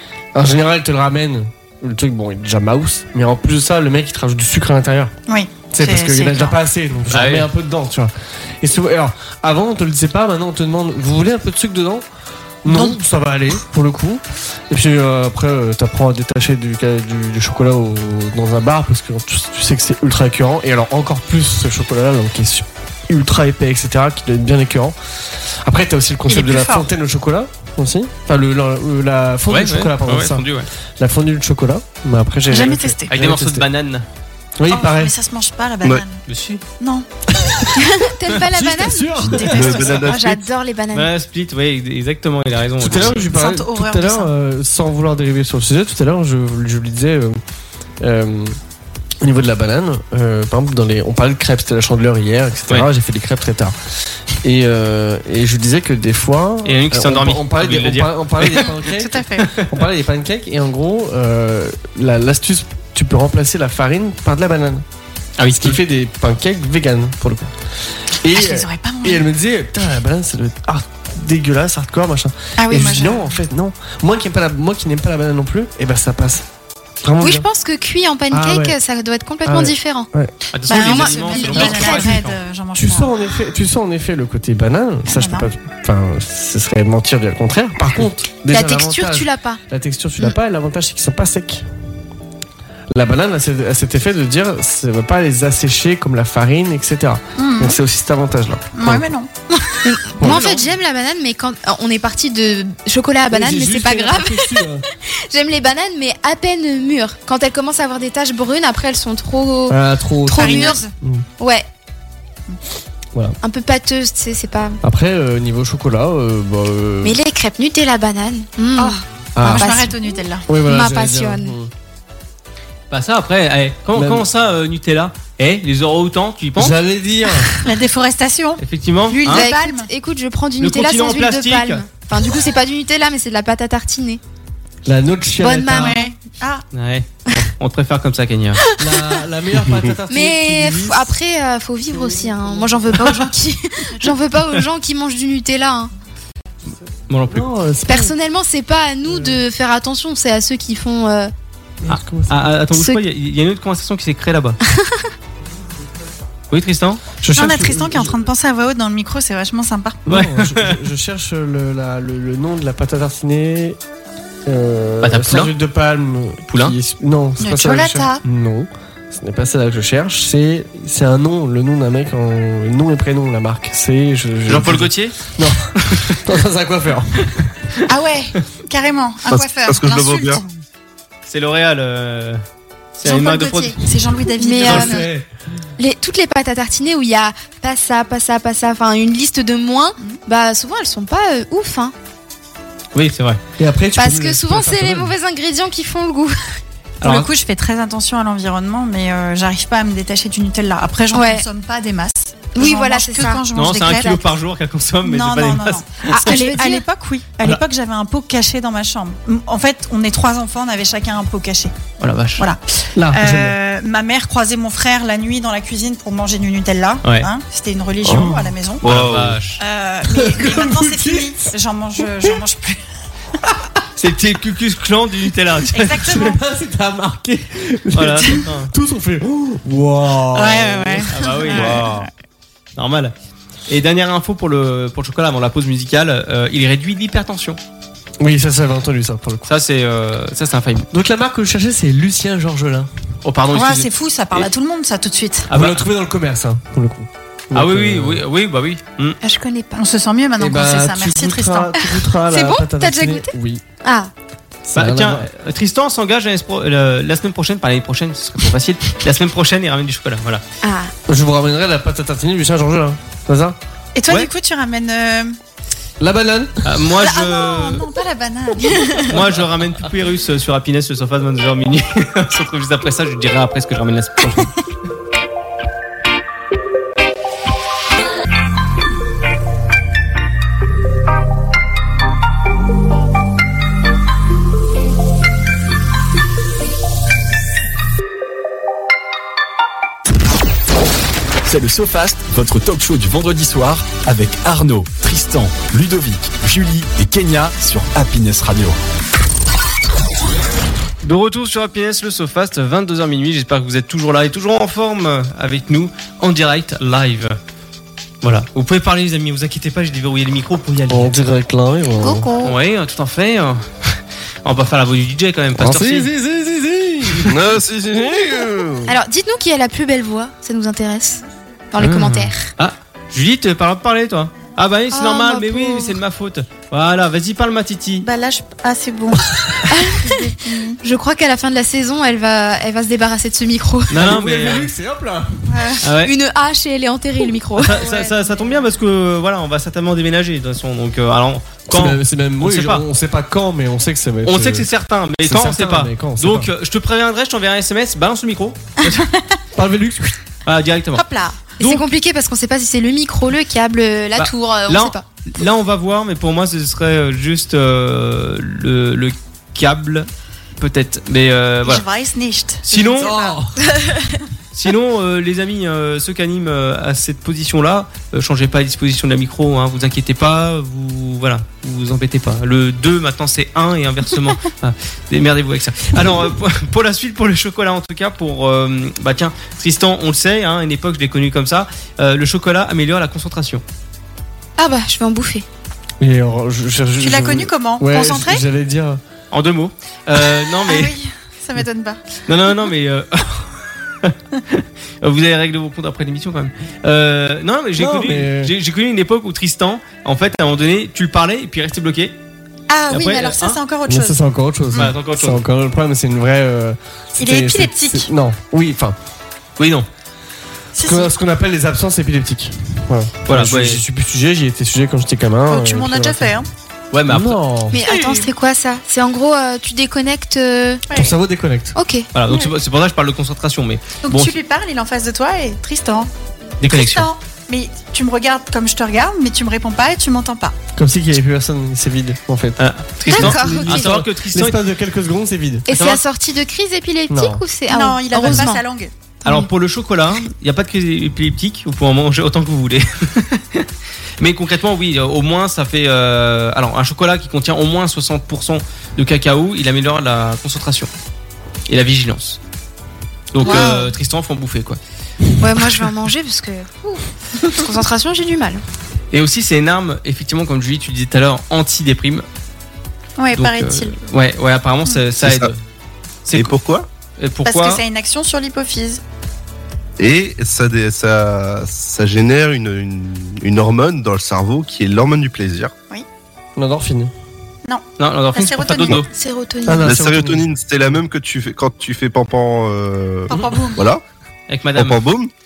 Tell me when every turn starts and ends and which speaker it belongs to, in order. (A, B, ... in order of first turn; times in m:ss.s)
0:00.3-0:05.1 A
0:05.3-0:06.6 B
0:05.7-0:12.0 A
0:07.1-0:07.5 C
0:12.6-0:30.5 A
0:12.7-0:13.0 B
0:26.3-0:26.9 B
0:29.5-0:30.7 C
0:31.0-0:33.6 A
0:32.5-0:33.1 B
0:33.1-0:34.0 C
0:34.6-0:35.1 A
0:34.7-0:36.2 B
0:36.3-0:36.6 C
0:36.8-0:37.1 B
0:37.4-0:37.6 A
0:37.8-0:41.1 D
0:38.5-0:40.0 A
0:39.2-0:40.1 B
0:39.5-0:40.4 E
0:40.9-0:43.3 C
0:42.8-0:47.4 A
0:43.0-0:44.3 B
0:48.0-0:48.6 A
0:49.2-0:53.7 A
0:54.4-1:04.8 A
0:56.6-0:58.8 C
0:58.9-0:59.5 B
0:59.4-0:59.8 C
1:05.4-1:05.8 C
1:05.5-1:07.5 A
1:08.2-1:16.4 A
1:08.3-1:09.2 B
1:12.6-1:13.3 B
1:17.0-1:17.4 A
1:17.2-1:20.1 D
1:18.3-1:18.8 A
1:19.4-1:20.3 A
1:20.5-1:22.4 C
1:20.6-1:23.1 B
1:20.7-1:22.0 D
1:22.8-1:31.6 A
1:25.1-1:25.5 B
1:28.5-1:29.6 D
1:32.9-1:39.1 A
1:37.4-1:37.8 B
1:38.7-1:39.8 B
1:39.8-1:50.8 D
1:40.2-1:40.6 A
1:43.3-1:44.8 A
1:49.7-1:51.2 A
1:50.3-1:50.9 B
1:51.4-1:51.6 D
1:53.4-1:54.8 D
1:54.8-1:57.2 A
1:57.0-1:59.0 D
1:58.8-2:00.4 B
1:59.4-1:59.7 A
1:59.6-2:01.5 D
2:00.5-2:01.7 A
2:02.9-2:06.8 C
2:03.9-2:04.3 A
2:06.6-2:07.5 A
2:07.6-2:09.9 B
2:08.6-2:09.4 C
2:09.2-2:14.2 D
2:10.6-2:11.8 C
2:14.8-2:16.0 A
2:15.4-2:16.1 D
2:15.7-2:16.6 B
2:16.7-2:18.6 C
2:18.8-2:21.1 A
2:18.9-2:19.2 D
2:20.1-2:25.9 D
2:21.9-2:23.0 A
2:23.0-2:23.3 B
2:27.1-2:27.5 C
2:27.3-2:28.1 A
2:27.9-2:31.3 D
2:29.1-2:29.4 A
2:31.8-2:32.5 A
2:31.9-2:34.6 C
2:32.7-2:33.0 D
2:34.8-2:35.0 D
2:36.5-2:37.2 C
2:37.2-2:38.3 A
2:37.3-2:40.0 B
2:40.0-2:43.8 A
2:40.1-2:40.8 C
2:44.4-2:57.4 A
2:45.0-2:45.5 C
2:46.5-2:46.8 C
2:47.4-2:48.2 B
2:54.5-2:55.2 C
2:55.8-2:56.2 C
2:57.9-3:00.5 B
2:59.3-3:00.4 E
3:01.3-3:02.4 C
3:03.0-3:03.8 C
3:03.0-3:05.1 B
3:04.4-3:05.0 D
3:04.6-3:05.2 A
3:05.8-3:11.9 D
3:12.9-3:13.4 C
3:13.6-3:15.1 A
3:14.0-3:16.6 D
3:17.0-3:17.3 C
3:17.0-3:24.3 B
3:21.1-3:21.4 D
3:22.5-3:23.4 D
3:23.5-3:26.3 C
3:25.0-3:38.8 B
3:26.1-3:26.8 D
3:32.0-3:32.5 C
3:32.9-3:33.6 A
3:37.0-3:37.3 C
3:38.0-3:38.5 A
3:38.8-3:39.4 E
3:38.8-3:39.6 C
3:39.6-3:42.8 B
3:40.0-3:42.3 A
3:44.0-3:46.3 C
3:45.7-3:46.4 B
3:46.0-3:51.1 A
3:47.9-3:48.7 C
3:50.3-3:52.1 B
3:51.1-3:52.0 C
3:51.5-3:52.0 E
3:52.8-3:53.1 C
3:53.7-3:57.6 C
3:58.2-3:59.5 A
3:59.5-4:00.9 C
4:00.9-4:02.9 A
4:03.2-4:04.5 C
4:03.5-4:05.5 B
4:05.5-4:05.8 C
4:05.5-4:08.2 A
4:07.5-4:09.2 C
4:09.2-4:09.8 D
4:09.7-4:11.9 B
4:10.4-4:13.6 A
4:12.3-4:13.3 D
4:13.8-4:14.1 D
4:14.6-4:15.3 A
4:14.7-4:20.4 C
4:20.6-4:20.9 D
4:21.1-4:23.6 A
4:23.9-4:25.4 B
4:26.0-4:26.7 A
4:26.6-4:27.9 C
4:26.9-4:29.2 B
4:29.0-4:34.5 C
4:51.4-4:58.8 F
5:01.0-5:07.4 C
5:08.2-5:11.2 C
5:10.9-5:12.3 A
5:12.0-5:12.5 D
5:12.4-5:16.1 C
5:15.5-5:17.4 A
5:17.3-5:18.8 E
5:18.0-5:18.7 A
5:18.9-5:22.5 D
5:21.8-5:28.1 C
5:24.9-5:26.0 D
5:28.0-5:29.3 B
5:29.7-5:34.0 D
5:30.0-5:30.8 B
5:33.9-5:34.7 C
5:33.9-5:35.5 A
5:35.5-5:35.8 B
5:35.8-5:36.1 C
5:36.0-5:37.7 D
5:37.6-5:42.8 C
5:37.6-5:38.7 B
5:41.7-5:44.7 A
5:44.2-5:49.1 C
5:45.2-5:46.5 A
5:49.5-5:50.2 A
5:50.4-5:51.0 C
5:50.9-5:51.8 B
5:51.6-5:55.0 D
5:54.2-6:00.1 C
6:00.6-6:01.8 C
6:01.6-6:03.3 B
6:02.6-6:03.2 C
6:03.0-6:03.5 A
6:03.7-6:04.1 D
6:04.5-6:23.6 C
6:24.6-6:25.4 D
6:26.0-6:29.0 A
6:27.0-6:28.4 B
6:29.3-6:30.9 C
6:30.6-6:32.0 B
6:32.3-6:42.1 C
6:37.8-6:38.5 A
6:42.7-6:44.2 B
6:42.9-6:43.6 C
6:43.9-6:49.0 A
6:44.7-6:45.4 C
6:47.2-6:48.1 B
6:49.6-6:49.9 C
6:50.7-6:51.1 B
6:50.8-6:56.4 A
6:53.3-6:53.8 C
6:55.5-6:56.5 B
6:56.9-6:57.4 C
6:57.1-6:57.8 A
6:57.7-7:00.8 D
6:57.8-6:58.3 B
7:00.9-7:01.7 A
7:01.7-7:02.1 D
7:02.1-7:04.3 C
7:04.0-7:06.1 B
7:06.6-7:07.1 C
7:06.6-7:10.6 B
7:10.8-7:15.6 A
7:12.6-7:14.6 C
7:13.1-7:13.9 D
7:15.7-7:18.6 D
7:15.7-7:16.0 C
7:17.1-7:17.4 A
7:17.7-7:18.9 B
7:19.2-7:19.5 D
7:19.2-7:23.7 C
7:24.2-7:30.9 C
7:31.7-7:32.4 C
7:33.3-7:34.8 C
7:33.4-7:33.9 B
7:33.4-7:33.8 D
7:35.4-7:38.6 D
7:39.1-7:42.2 C
7:43.2-7:44.0 B
7:43.3-7:45.6 C
7:45.2-7:45.5 E
7:46.2-7:46.5 C
7:46.3-7:46.8 E
7:47.2-7:47.8 C
7:47.4-7:49.0 B
7:50.0-7:55.7 E
7:56.6-7:57.1 A
7:57.6-7:59.0 B
7:58.0-7:59.1 C
7:59.1-7:59.9 D
7:59.6-8:00.5 A
7:59.8-8:04.0 E
8:03.3-8:03.8 B
8:04.5-8:05.0 C
8:04.8-8:05.3 E